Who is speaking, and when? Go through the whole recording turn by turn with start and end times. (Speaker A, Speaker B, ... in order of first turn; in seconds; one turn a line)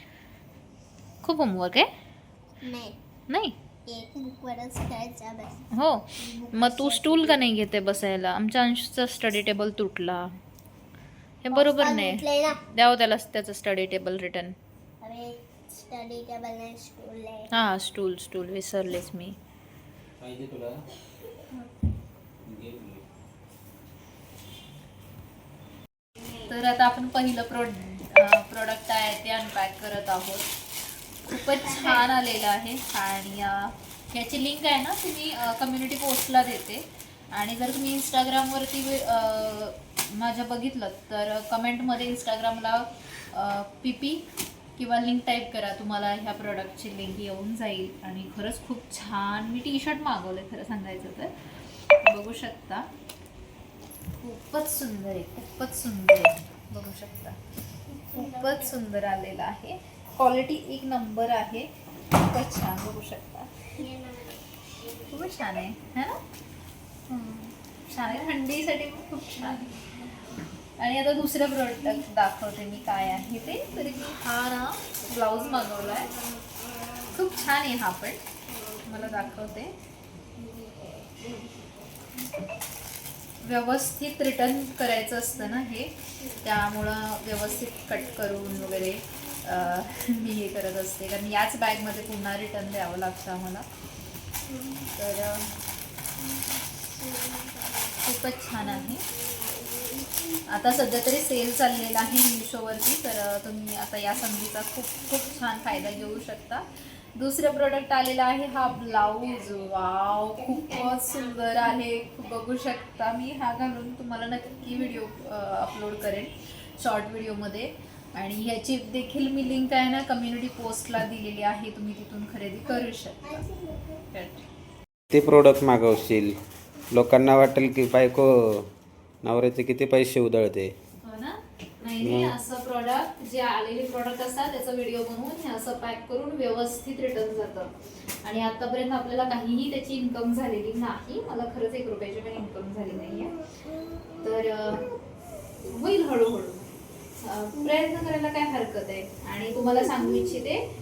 Speaker A: 1.2-1.9
Speaker B: 2.6-3.0
Speaker A: 3.3-3.6
Speaker B: 3.9-5.6
Speaker A: 5.7-10.3
Speaker B: 6.2-7.4
Speaker A: 11.4-14.6
Speaker B: 11.5-12.6
Speaker B: 15.0-17.5
Speaker A: 17.5-19.4
Speaker C: 20.2-20.8
Speaker C: 22.5-23.0
Speaker A: 26.5-30.5
Speaker A: 31.3-44.2
Speaker B: 31.6-32.0
Speaker A: 44.8-51.3
Speaker A: 52.0-52.9
Speaker A: 54.2-57.4
Speaker B: 57.9-58.8
Speaker A: 58.1-63.7
Speaker B: 63.8-65.0
Speaker A: 65.1-66.2
Speaker B: 67.1-67.4
Speaker A: 67.9-69.8
Speaker A: 70.8-76.2
Speaker A: 77.1-78.2
Speaker B: 78.5-79.0
Speaker A: 78.8-79.8
Speaker B: 80.4-81.7
Speaker A: 83.4-93.7
Speaker B: 94.5-94.9
Speaker A: 95.0-95.5
Speaker B: 96.2-98.0
Speaker A: 98.0-99.0
Speaker B: 98.6-100.4
Speaker A: 100.5-106.7
Speaker A: 107.2-123.5
Speaker B: 110.5-111.1
Speaker B: 122.7-124.0
Speaker A: 124.1-124.4
Speaker C: 125.1-126.3
Speaker C: 126.9-128.7
Speaker C: 129.2-130.7
Speaker A: 131.0-137.7
Speaker C: 132.0-132.3
Speaker A: 138.2-143.3
Speaker A: 144.2-144.9
Speaker A: 145.7-150.7